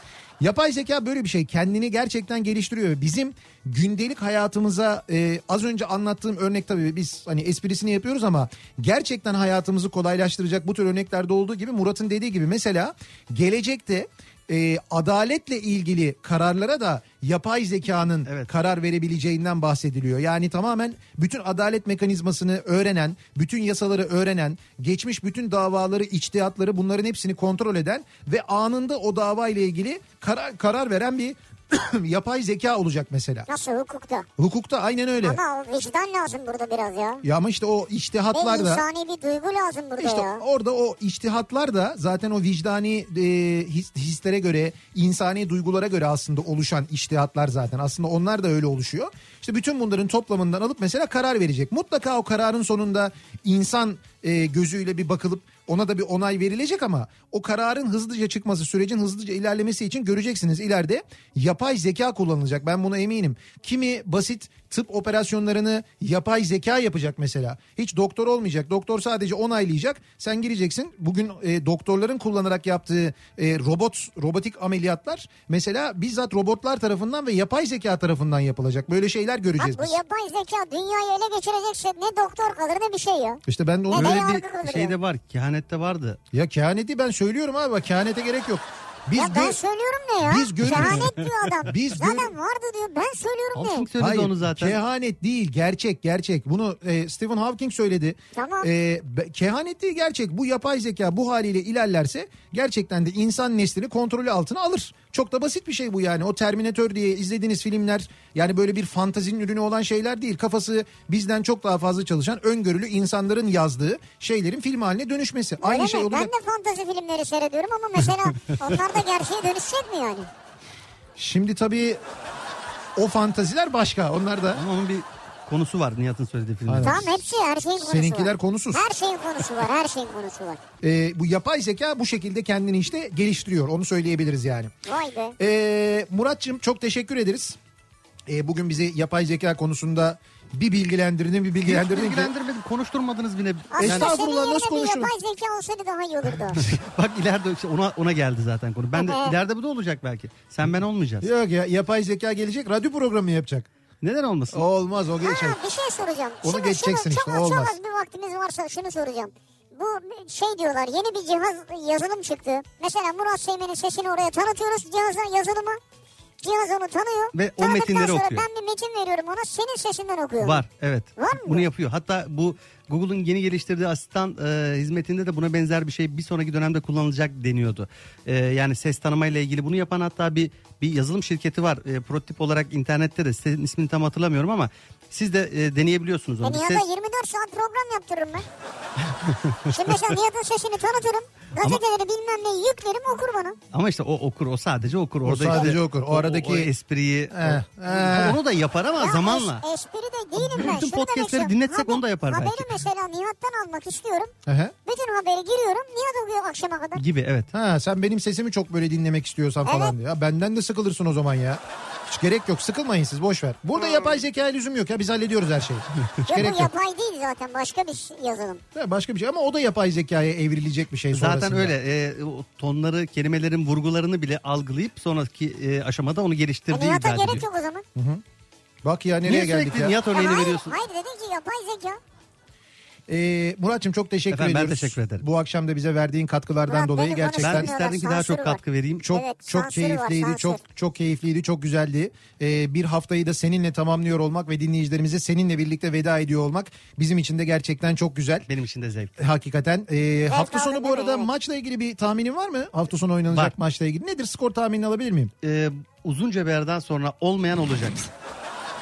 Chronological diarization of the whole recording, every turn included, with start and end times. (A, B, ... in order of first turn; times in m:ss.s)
0:00.4-0:33.5 A
0:33.5-0:34.3 B
0:34.4-0:35.4 A
0:35.2-0:37.2 B
0:37.2-0:38.8 A
0:38.3-0:40.4 B
0:40.0-1:20.0 A
1:19.6-1:25.0 B
1:23.4-1:24.4 A
1:23.9-1:26.2 C
1:26.3-1:29.6 A
1:29.2-1:33.9 B
1:30.2-1:31.2 A
1:30.7-1:31.3 C
1:31.7-1:32.3 A
1:33.6-1:34.8 C
1:34.0-1:56.3 A
1:38.3-1:38.7 B
1:55.6-2:00.3 B
1:58.4-1:58.8 C
2:01.2-2:02.0 A
2:03.0-2:04.6 A
2:04.5-2:07.2 C
2:06.7-2:07.0 A
2:06.8-2:10.6 B
2:07.8-2:08.8 A
2:10.8-2:14.7 A
2:14.8-2:15.4 B
2:15.4-2:17.6 A
2:18.3-2:22.3 A
2:21.7-2:24.2 C
2:23.7-2:26.7 B
2:23.8-2:25.1 A
2:26.6-2:31.3 C
2:28.9-2:29.4 B
2:31.2-2:33.7 A
2:34.0-2:34.6 C
2:34.5-2:35.6 A
2:35.2-2:45.8 B
2:36.4-2:37.8 A
2:46.4-2:50.6 B
2:47.3-2:48.4 C
2:50.4-3:06.8 C
2:51.2-2:51.7 B
3:06.4-3:08.4 B
3:09.0-3:10.1 C
3:09.7-3:13.6 B
3:13.7-3:19.6 C
3:15.2-3:16.7 A
3:17.3-3:18.4 A
3:19.0-3:24.3 B
3:20.4-3:22.7 C
3:24.4-3:24.7 A
3:24.9-3:27.0 B
3:27.0-3:27.5 C
3:27.5-3:35.8 A
3:29.6-3:30.0 B
3:36.2-3:36.6 C
3:36.3-3:38.6 B
3:36.4-3:36.7 A
3:38.7-3:41.7 A
3:41.1-3:47.4 C
3:46.7-3:47.8 B
3:48.0-3:48.2 A
3:48.8-3:50.0 A
3:49.3-3:50.7 C
3:50.1-3:52.0 B
3:53.1-3:57.7 A
3:54.3-3:55.3 C
3:56.6-4:00.6 B
3:57.4-3:59.1 C
3:59.0-4:08.5 A
4:08.5-4:09.2 C
4:09.2-4:15.3 A
4:10.3-4:11.3 B
4:13.3-4:13.5 C
4:15.4-4:18.1 C